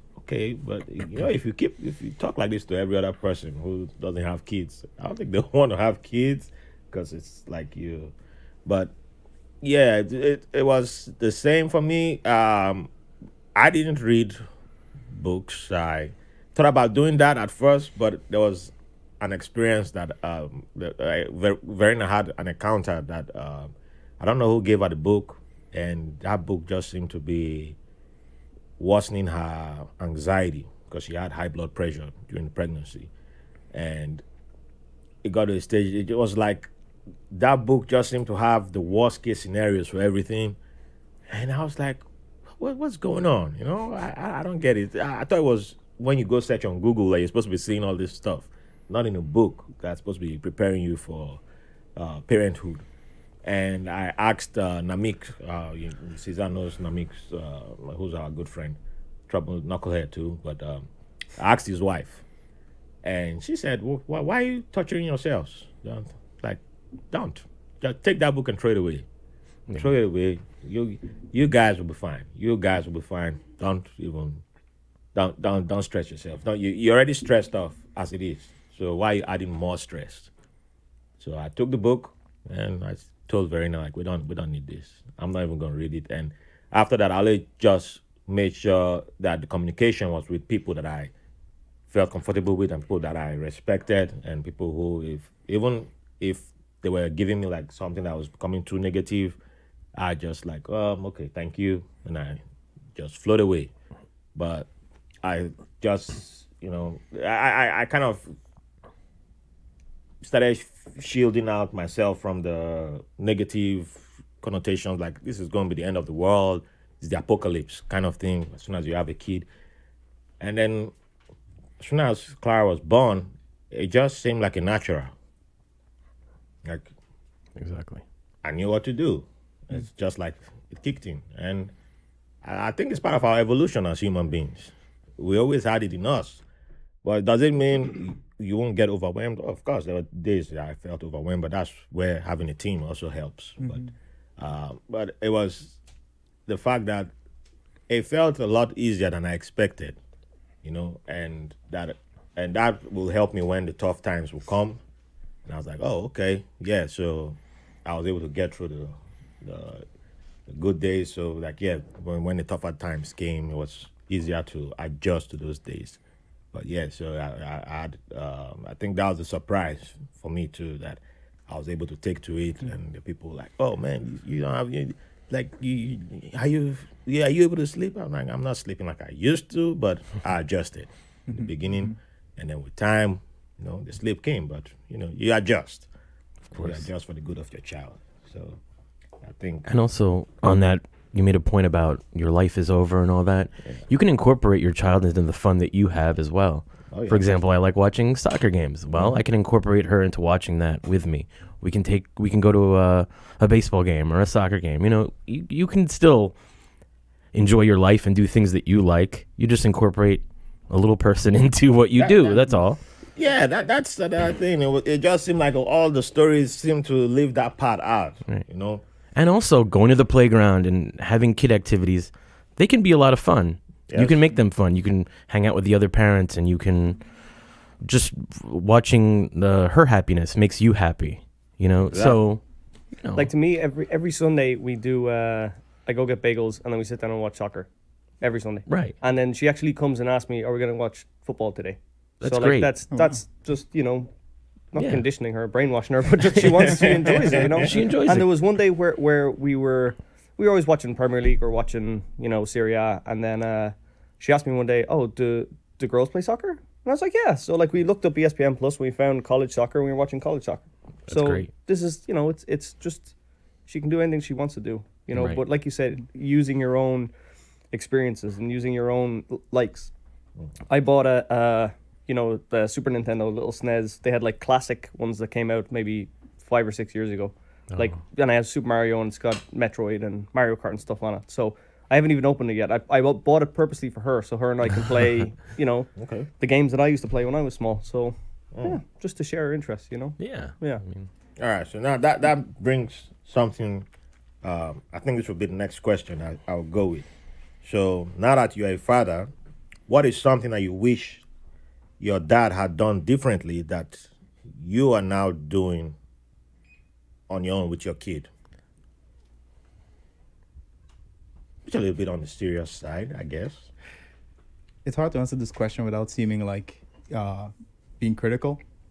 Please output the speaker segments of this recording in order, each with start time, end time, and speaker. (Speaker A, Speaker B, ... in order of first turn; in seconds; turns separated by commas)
Speaker A: 0.2-8.1, Speaker A: 8.6-8.9, Speaker A: 9.6-12.9, Speaker A: 13.5-14.4, Speaker A: 15.1-27.8, Speaker A: 28.8-33.1, Speaker A: 33.7-34.2, Speaker A: 35.2-36.7, Speaker A: 37.3-40.6, Speaker A: 41.3-42.0, Speaker A: 42.6-51.4, Speaker A: 52.0-52.8, Speaker A: 53.4-62.2, Speaker A: 63.0-66.6, Speaker A: 67.1-69.0, Speaker A: 69.7-74.4, Speaker A: 75.1-80.3, Speaker A: 81.2-91.1, Speaker A: 91.9-99.4, Speaker A: 100.0-102.4, Speaker A: 103.0-103.7, Speaker A: 104.3-104.7, Speaker A: 105.2-108.3, Speaker A: 110.2-119.5, Speaker A: 120.4-120.9, Speaker A: 121.8-125.1, Speaker A: 126.6-126.9, Speaker B: 127.5-128.0, Speaker A: 128.4-131.7, Speaker A: 132.4-136.4, Speaker A: 137.0-145.8, Speaker A: 146.5-147.1, Speaker A: 147.9-150.0, Speaker A: 150.6-154.8, Speaker A: 155.4-159.8, Speaker A: 160.5-166.0, Speaker A: 166.5-185.9, Speaker B: 186.5-186.8, Speaker A: 186.5-188.6, Speaker A: 189.2-189.7, Speaker B: 189.7-206.3, Speaker A: 196.9-197.2, Speaker A: 198.9-199.2, Speaker B: 207.3-212.8, Speaker A: 212.0-212.5, Speaker A: 213.1-218.8, Speaker B: 219.1-232.4, Speaker A: 223.9-224.2, Speaker A: 231.9-232.2, Speaker B: 233.0-233.3, Speaker C: 233.2-237.7, Speaker C: 238.2-244.1, Speaker B: 238.7-238.9, Speaker B: 242.2-242.7, Speaker C: 244.7-263.1, Speaker B: 244.8-245.1, Speaker B: 246.3-248.3, Speaker B: 261.1-261.5, Speaker C: 263.7-267.1, Speaker B: 265.1-265.4, Speaker C: 267.7-269.9, Speaker C: 270.7-290.8, Speaker A: 286.0-286.3, Speaker A: 288.5-288.8, Speaker B: 290.2-291.1, Speaker A: 291.4-293.9, Speaker A: 294.4-297.1, Speaker A: 297.6-299.3, Speaker A: 299.9-301.2, Speaker A: 302.0-305.9, Speaker A: 307.3-308.3, Speaker A: 311.7-313.7, Speaker D: 314.8-318.6